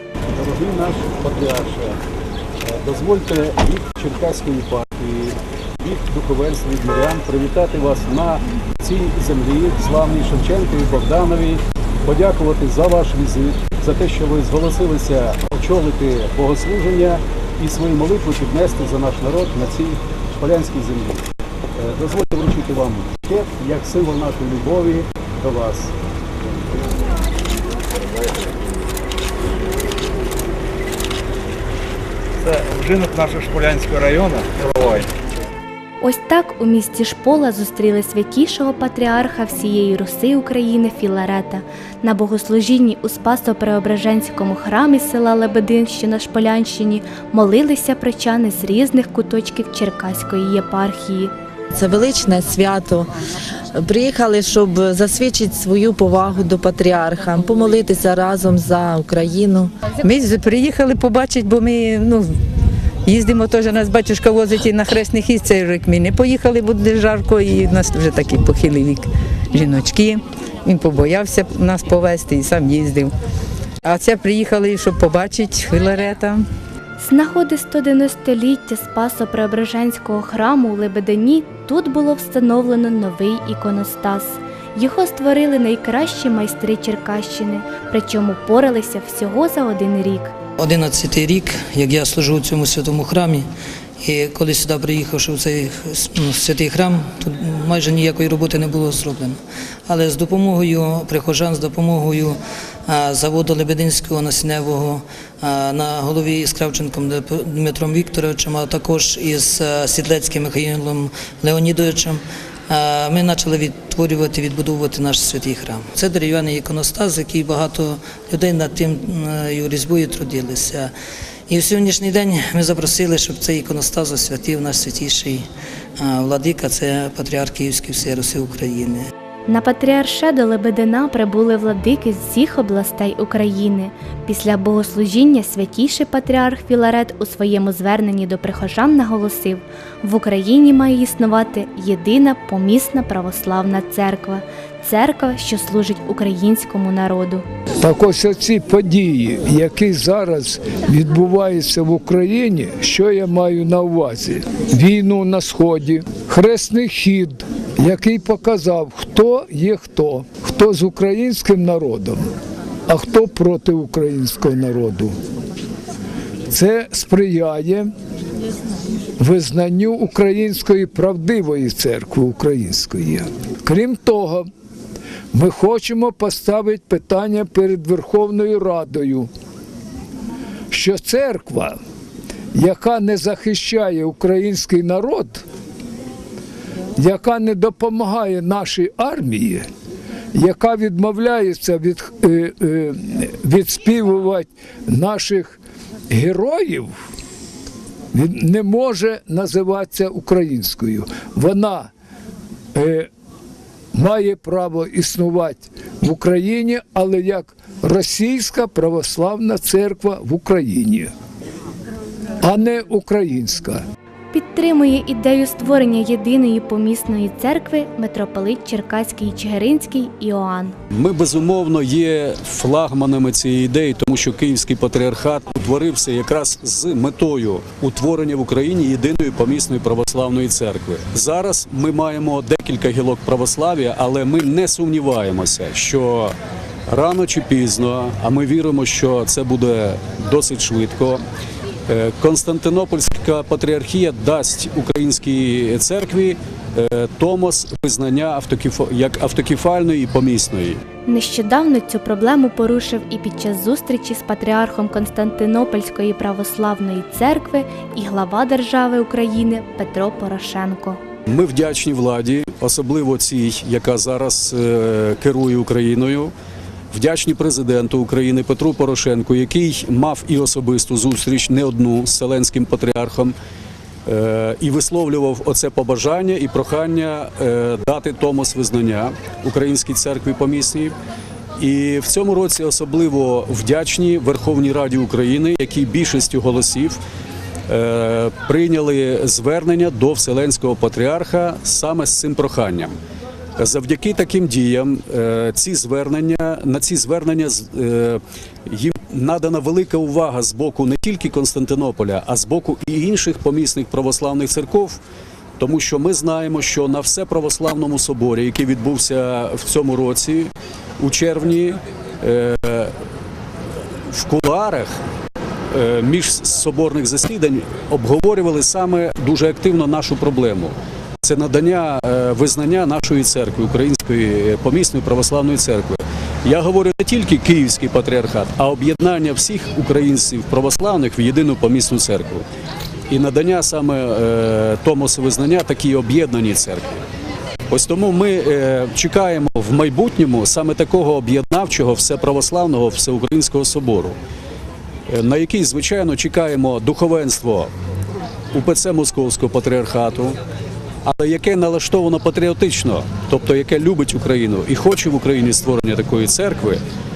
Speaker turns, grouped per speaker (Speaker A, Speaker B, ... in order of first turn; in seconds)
Speaker A: 0.3-2.0, 2.6-25.9, 220.9-236.3, 236.9-241.2, 241.9-250.8, 261.3-266.3, 266.9-273.4, 274.1-281.0, 281.6-287.0, 287.7-293.0, 293.6-305.0, 305.6-312.9, 314.1-314.9, 315.7-332.4, 333.1-337.0, 337.7-344.2, 345.1-347.7, 348.5-350.4, 351.1-356.8
Speaker B: 32.4-35.1
Speaker C: 36.0-51.3, 77.0-90.3, 129.5-147.4, 214.3-220.8, 251.1-261.0
Speaker D: 51.7-53.1, 53.7-59.9
Speaker E: 60.0-62.4, 63.1-73.1, 73.8-76.5
Speaker F: 90.6-93.5, 94.0-120.9, 121.5-125.5, 126.0-129.1
Speaker G: 147.8-162.3, 162.9-165.2, 166.5-167.9, 169.2-174.5, 175.3-179.3, 180.7-181.8, 182.6-185.4, 187.0-189.7, 190.3-195.6, 196.1-196.9, 198.1-201.9, 202.8-203.1, 203.9-211.1, 212.4-213.8